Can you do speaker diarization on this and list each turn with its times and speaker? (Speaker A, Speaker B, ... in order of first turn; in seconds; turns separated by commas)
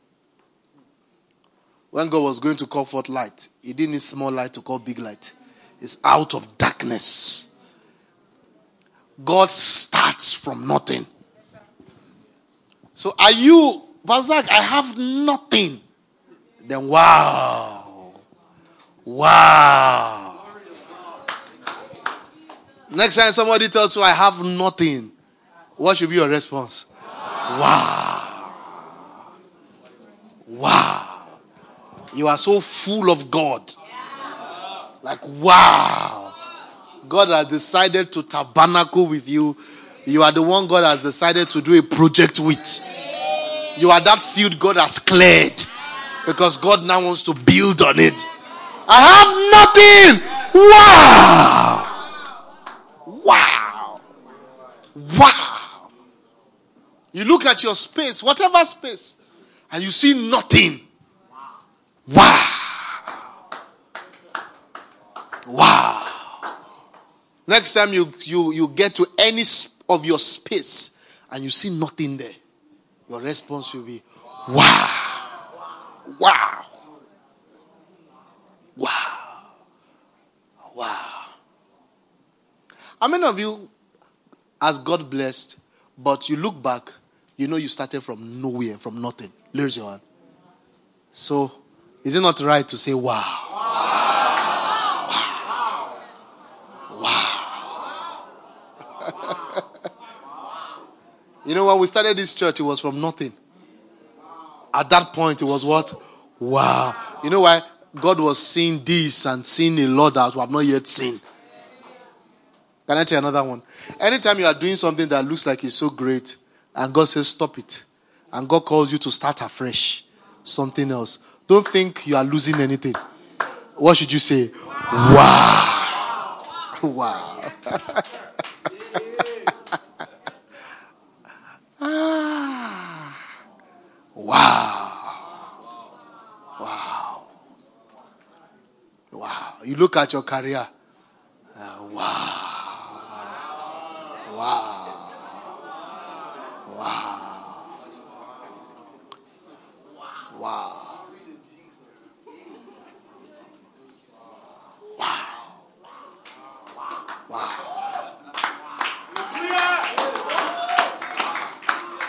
Speaker A: 1.9-7.5, Speaker A: 9.2-11.1, Speaker A: 13.0-15.8, Speaker A: 16.6-18.1, Speaker A: 19.1-20.4, Speaker A: 22.9-25.1, Speaker A: 25.8-26.9, Speaker A: 27.5-28.6, Speaker A: 30.5-31.4, Speaker A: 32.1-33.7, Speaker A: 35.0-36.3, Speaker A: 37.0-42.8, Speaker A: 43.7-45.7, Speaker A: 46.2-48.3, Speaker A: 48.9-51.9, Speaker A: 53.0-54.0, Speaker A: 54.9-55.9, Speaker A: 57.1-59.1, Speaker A: 59.7-60.8, Speaker A: 62.1-63.0, Speaker A: 65.5-66.3, Speaker A: 67.5-72.4, Speaker A: 73.1-75.2, Speaker A: 76.0-76.7, Speaker A: 78.8-79.4, Speaker A: 80.7-81.3, Speaker A: 83.0-83.7, Speaker A: 84.6-90.0, Speaker A: 91.1-93.6, Speaker A: 95.0-95.4, Speaker A: 96.9-97.7, Speaker A: 99.0-99.6, Speaker A: 101.4-103.3, Speaker A: 104.7-111.2, Speaker A: 112.9-123.0, Speaker A: 123.8-126.1, Speaker A: 126.8-128.0, Speaker A: 128.7-129.0, Speaker A: 131.8-133.2, Speaker A: 134.2-135.2, Speaker A: 136.6-137.3, Speaker A: 139.1-140.7, Speaker A: 141.6-143.1, Speaker A: 144.2-145.2, Speaker A: 146.6-147.7, Speaker A: 150.3-151.0, Speaker A: 155.0-155.4, Speaker A: 157.3-157.8